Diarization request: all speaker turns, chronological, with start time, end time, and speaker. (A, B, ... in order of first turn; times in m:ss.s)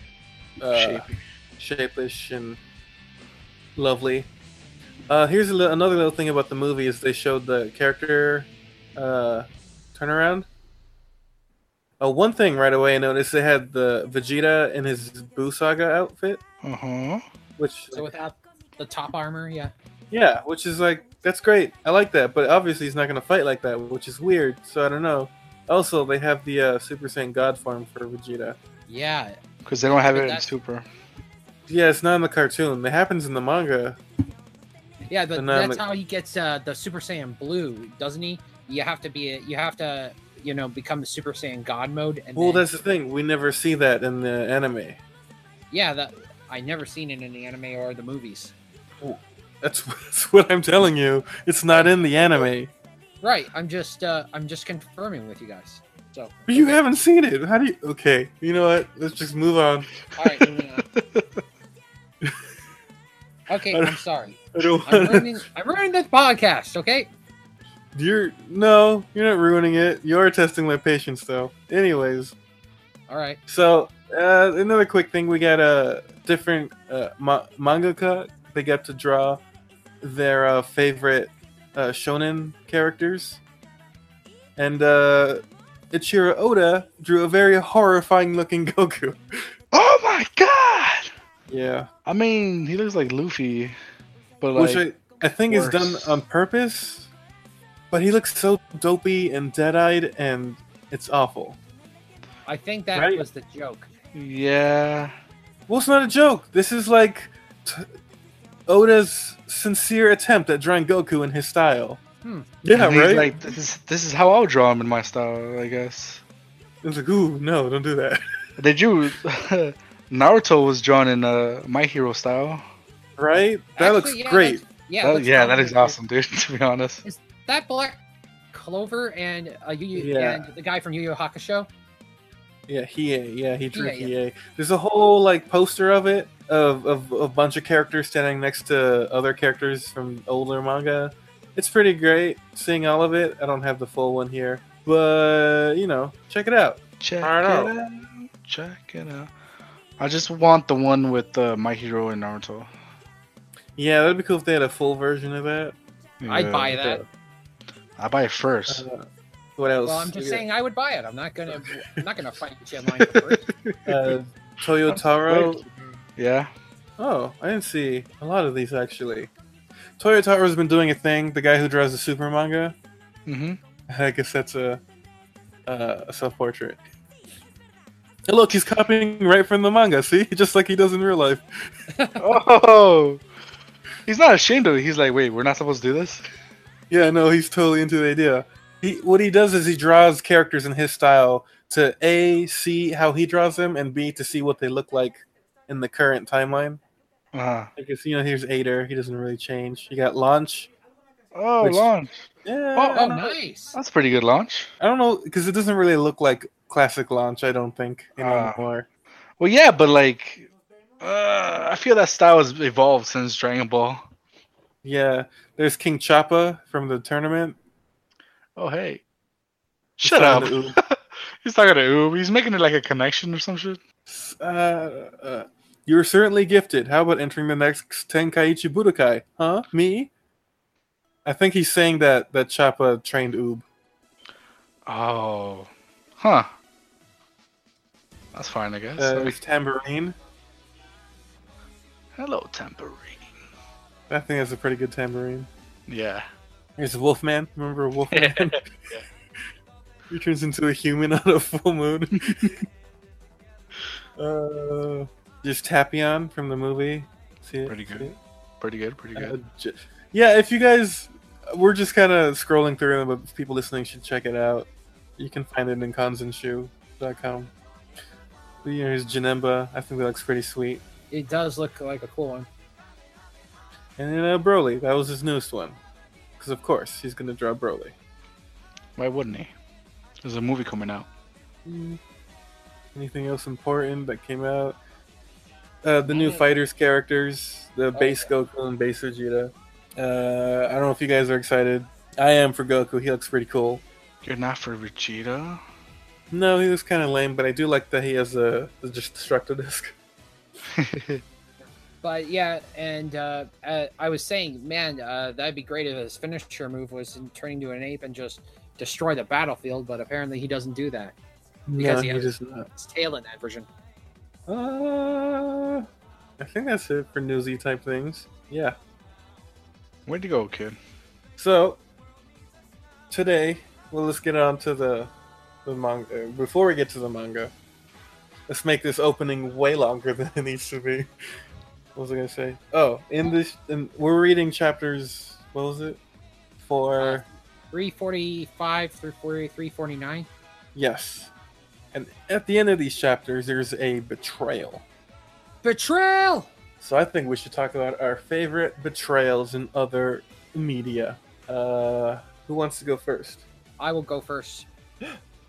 0:00.6-0:01.1 A
0:00.7-0:01.2 B
0:01.6-0:02.6 A
0:03.8-0:04.3 A
0:05.1-0:10.5 A
0:12.0-0:16.4 A
0:16.6-0:17.2 B
0:17.6-0:18.1 A
0:17.9-0:19.7 C
0:20.1-0:28.6 A
0:28.9-0:29.4 C
0:29.7-0:30.9 B
0:30.0-0:30.5 C
0:31.7-0:34.0 A
0:35.1-0:42.6 C
0:35.4-0:35.8 A
0:42.4-0:45.0 A
0:45.7-0:48.5 C
0:49.0-0:52.7 A
0:53.2-0:56.8 C
0:56.5-0:59.9 A
1:00.1-1:01.3 B
1:00.2-1:00.8 C
1:03.5-1:07.1 C
1:03.7-1:04.0 A
1:04.6-1:05.3 A
1:07.9-1:12.4 A
1:13.1-1:13.4 C
1:13.5-1:19.4 A
1:20.0-1:23.4 A
1:24.6-1:29.4 A
1:29.7-1:31.1 B
1:31.5-1:31.9 A
1:32.1-1:33.8 B
1:34.4-1:34.8 B
1:34.6-1:37.1 A
1:35.5-1:36.2 B
1:37.9-1:41.6 A
1:42.5-1:43.9 C
1:43.0-1:43.2 A
1:44.1-1:45.1 B
1:45.7-1:47.9 A
1:48.7-1:52.0 A
1:52.6-1:53.3 A
1:52.7-1:56.2 B
1:56.8-1:58.2 A
1:58.6-2:02.6 B
2:03.2-2:04.6 A
2:03.8-2:06.0 C
2:05.0-2:07.0 B
2:07.0-2:08.0 C
2:08.5-2:11.7 C
2:10.0-2:10.5 A
2:12.7-2:27.8 A
2:13.7-2:14.1 C
2:27.0-2:29.3 B
2:30.0-2:32.7 B
2:33.8-2:35.8 A
2:36.2-2:36.8 B
2:36.3-2:37.0 C
2:36.7-2:37.1 A
2:38.0-2:38.8 B
2:38.7-2:39.0 A
2:39.6-2:40.4 A
2:39.8-2:43.5 C
2:41.5-2:42.0 A
2:42.9-2:44.2 B
2:43.9-2:45.6 A
2:44.9-2:46.5 B
2:47.0-2:49.3 A
2:50.0-2:52.8 A
2:53.3-2:53.6 B
2:53.9-2:54.8 A
2:55.7-2:56.8 A
2:58.3-3:01.7 A
3:02.2-3:03.2 B
3:04.1-3:06.2 B
3:06.9-3:16.8 A
3:17.3-3:17.7 B
3:17.8-3:20.7 A
3:21.4-3:23.1 B
3:21.6-3:21.9 A
3:22.4-3:23.4 A
3:23.0-3:23.8 C
3:23.7-3:24.7 B
3:24.8-3:28.9 A
3:28.2-3:28.7 B
3:29.4-3:30.5 B
3:31.0-3:34.0 B
3:34.8-3:37.6 A
3:38.6-3:39.0 B
3:40.0-3:43.8 B
3:40.0-3:40.8 A
3:44.1-3:50.1 A
3:51.2-3:53.6 A
3:54.9-3:56.5 B
3:58.3-3:59.4 B
3:59.0-4:00.2 A
4:02.2-4:03.3 B
4:04.1-4:05.5 A
4:05.9-4:06.3 B
4:06.8-4:08.6 A
4:08.1-4:09.0 B
4:10.1-4:12.6 A
4:14.2-4:18.2 A
4:17.7-4:19.4 B
4:19.2-4:27.5 A
4:28.6-4:30.8 A
4:31.1-4:32.5 C
4:34.0-4:35.8 A
4:36.4-4:37.9 A
4:39.0-4:39.5 B
4:40.2-4:41.1 B
4:41.6-4:42.0 A
4:43.0-4:44.8 A
4:45.8-4:53.8 A
4:46.1-4:46.5 C
4:47.9-4:48.3 C
4:54.2-4:55.6 B
4:56.3-5:00.0 A
5:00.7-5:01.2 B
5:02.0-5:11.2 C
5:11.7-5:12.7 A
5:11.8-5:13.7 C
5:14.5-5:15.9 A
5:16.4-5:18.8 A
5:20.1-5:20.8 B
5:21.4-5:21.8 A
5:23.1-5:25.1 A
5:25.6-5:27.5 A
5:28.5-5:31.1 A
5:32.0-5:36.0 A
5:36.6-5:37.2 A
5:37.0-5:40.3 C
5:40.8-5:41.3 A
5:41.9-5:44.8 A
5:45.6-5:46.5 C
5:46.8-5:53.4 A
5:53.8-5:54.7 C